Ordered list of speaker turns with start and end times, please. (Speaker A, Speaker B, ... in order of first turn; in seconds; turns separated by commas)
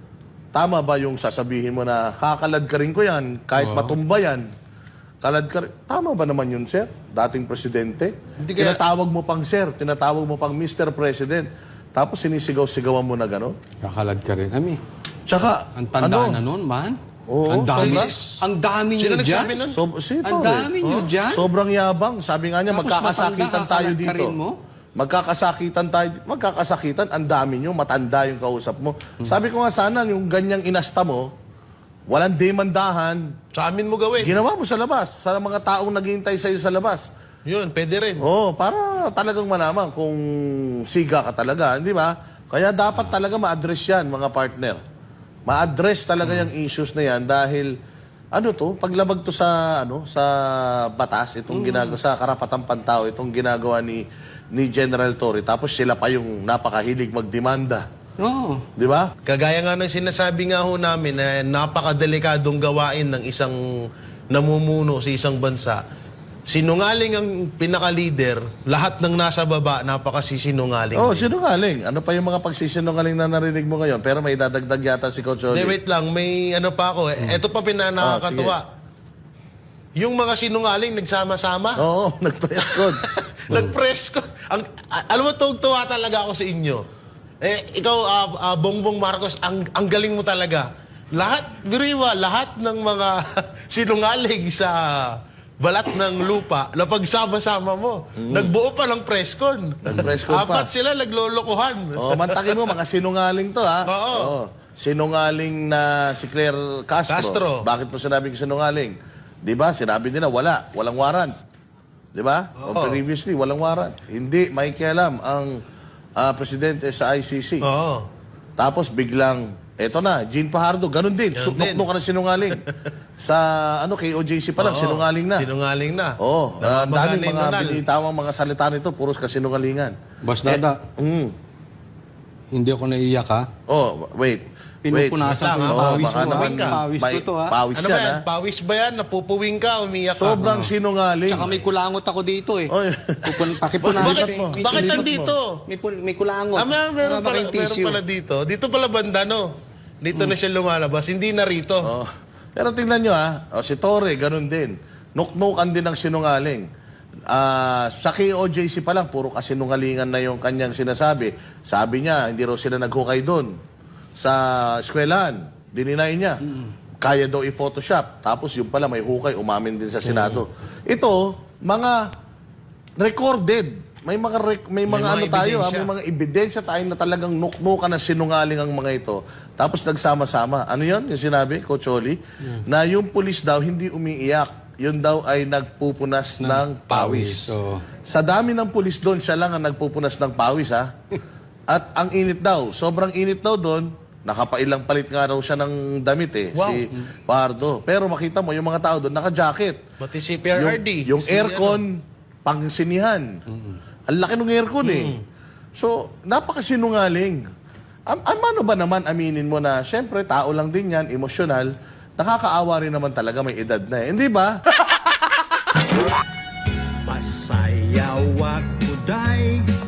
Speaker A: 0.5-4.5, Speaker B: 3.6-4.0, Speaker A: 5.2-13.6, Speaker C: 8.4-8.8, Speaker B: 13.8-14.8, Speaker A: 15.3-16.4, Speaker B: 15.7-19.6, Speaker A: 17.3-18.1, Speaker C: 17.7-18.2, Speaker C: 19.0-19.8, Speaker A: 19.7-20.7, Speaker B: 20.2-21.5, Speaker C: 20.8-21.1, Speaker A: 21.3-24.3, Speaker B: 22.7-24.6, Speaker A: 25.0-31.3, Speaker A: 32.1-33.3, Speaker C: 33.5-34.4, Speaker A: 34.2-37.1, Speaker C: 37.5-38.2, Speaker A: 38.2-44.8, Speaker A: 45.5-47.7, Speaker A: 48.3-57.8, Speaker B: 51.5-52.0, Speaker B: 58.2-58.6, Speaker A: 58.8-59.1, Speaker C: 59.2-65.8, Speaker C: 66.5-71.3, Speaker A: 70.9-75.7, Speaker C: 75.5-78.6, Speaker A: 78.0-78.5, Speaker C: 80.0-81.8, Speaker A: 81.8-83.0, Speaker C: 82.7-86.8, Speaker B: 83.5-83.7, Speaker C: 87.4-102.7, Speaker A: 98.2-98.5, Speaker A: 99.8-100.7, Speaker A: 102.0-111.3, Speaker C: 103.8-104.3, Speaker C: 107.1-107.7, Speaker A: 112.1-115.6, Speaker C: 112.6-113.0, Speaker A: 116.2-117.7, Speaker C: 117.6-118.1, Speaker A: 118.6-122.6, Speaker C: 121.3-121.9, Speaker A: 123.2-125.5, Speaker C: 124.6-127.8, Speaker A: 126.2-131.3, Speaker B: 130.2-130.8, Speaker B: 132.5-133.5, Speaker A: 133.7-138.2, Speaker B: 134.8-137.5, Speaker C: 135.2-136.8, Speaker C: 137.7-140.5, Speaker A: 140.1-141.5, Speaker B: 140.3-140.7, Speaker B: 141.3-142.7, Speaker A: 142.7-145.3, Speaker B: 143.2-148.0, Speaker C: 143.9-145.6, Speaker C: 146.6-151.9, Speaker A: 151.8-156.7, Speaker A: 157.3-163.6, Speaker A: 164.2-172.0, Speaker A: 173.0-187.5, Speaker C: 174.9-175.9, Speaker B: 186.4-187.8, Speaker A: 188.1-190.9, Speaker A: 191.7-199.8, Speaker C: 196.5-196.9, Speaker C: 200.0-201.8, Speaker A: 200.5-203.3, Speaker A: 204.1-205.2, Speaker C: 204.8-205.2, Speaker A: 205.8-207.4, Speaker A: 208.1-215.1, Speaker B: 217.1-219.5